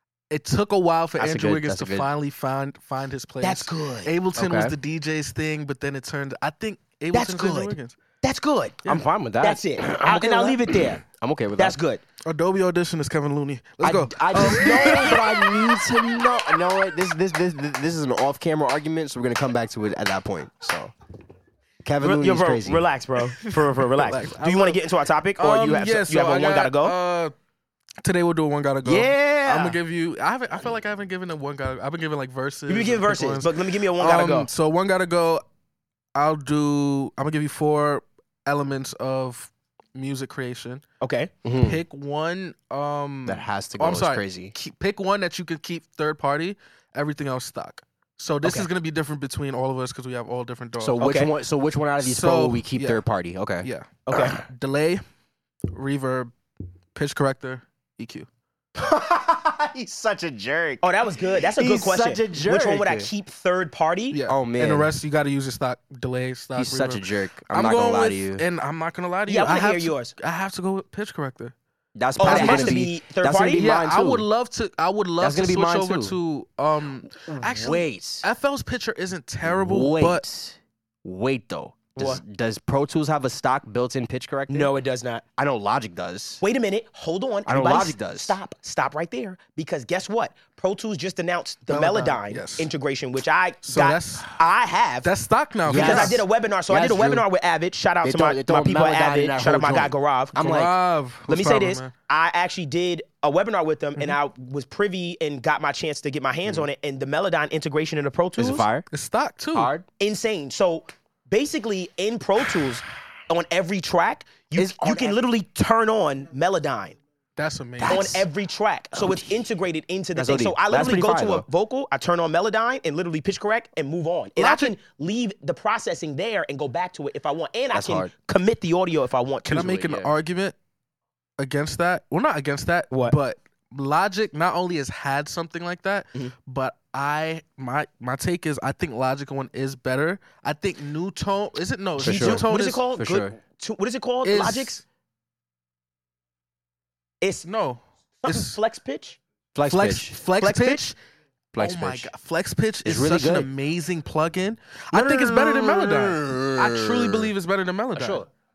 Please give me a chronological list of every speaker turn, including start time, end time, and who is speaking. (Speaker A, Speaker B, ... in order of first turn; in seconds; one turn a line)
Speaker A: 0.3-8.0
Speaker B: 1.2-2.1
Speaker C: 3.4-4.1
Speaker B: 4.3-4.7
Speaker C: 7.1-8.8
Speaker B: 8.8-11.8
Speaker C: 9.4-11.0
Speaker C: 11.6-12.0
Speaker A: 12.2-15.5
Speaker B: 13.8-20.9
Speaker C: 14.3-15.3
Speaker B: 21.8-22.8
Speaker C: 22.0-26.9
Speaker A: 23.4-24.8
Speaker A: 25.4-27.3
Speaker A: 28.0-35.4
Speaker C: 28.8-29.8
Speaker C: 32.7-34.5
Speaker A: 36.1-40.8
Speaker C: 41.0-41.3
Speaker B: 41.4-41.8
Speaker A: 41.6-51.0
Speaker B: 43.3-44.5
Speaker B: 50.8-54.2
Speaker C: 51.0-51.3
Speaker A: 52.0-53.0
Speaker A: 53.6-55.0
Speaker C: 54.1-54.4
Speaker A: 55.7-56.3
Speaker A: 56.9-58.3
Speaker B: 58.8-60.8
Speaker C: 60.8-64.2
Speaker B: 61.4-63.1
Speaker A: 64.1-71.5
Speaker B: 64.3-64.9
Speaker B: 66.5-68.4
Speaker C: 69.3-70.1
Speaker B: 72.0-74.2
Speaker C: 72.2-73.7
Speaker A: 72.2-72.8
Speaker A: 73.5-80.2
Speaker B: 75.2-76.2
Speaker B: 77.3-78.2
Speaker B: 79.4-84.7
Speaker C: 81.9-82.2
Speaker C: 84.5-85.2
Speaker B: 85.4-86.4
Speaker C: 86.4-95.1
Speaker B: 87.5-88.4
Speaker A: 91.7-92.7
Speaker A: 93.6-94.3
Speaker A: 95.0-96.2
Speaker B: 95.6-97.2
Speaker C: 95.7-100.3
Speaker B: 98.0-100.7
Speaker A: 100.3-101.9
Speaker C: 101.3-108.7
Speaker B: 108.4-108.9
Speaker A: 108.9-109.7
Speaker B: 109.5-109.8
Speaker C: 110.0-117.0
Speaker B: 114.5-115.2
Speaker A: 117.4-118.2
Speaker B: 117.8-118.2
Speaker C: 117.8-129.9
Speaker B: 118.9-119.3
Speaker B: 120.2-121.4
Speaker A: 124.4-124.7
Speaker B: 127.7-128.1
Speaker A: 129.5-130.5
Speaker B: 129.7-130.1
Speaker A: 131.4-142.8
Speaker C: 132.9-133.2
Speaker B: 142.0-143.3
Speaker C: 142.0-144.8
Speaker A: 144.2-144.8
Speaker C: 147.2-147.4
Speaker A: 147.4-148.6
Speaker C: 148.2-149.2
Speaker B: 149.5-150.2
Speaker A: 149.7-151.0
Speaker C: 150.4-150.9
Speaker B: 151.5-152.1
Speaker A: 151.6-158.2
Speaker B: 152.8-153.5
Speaker B: 154.9-157.3
Speaker B: 157.9-158.3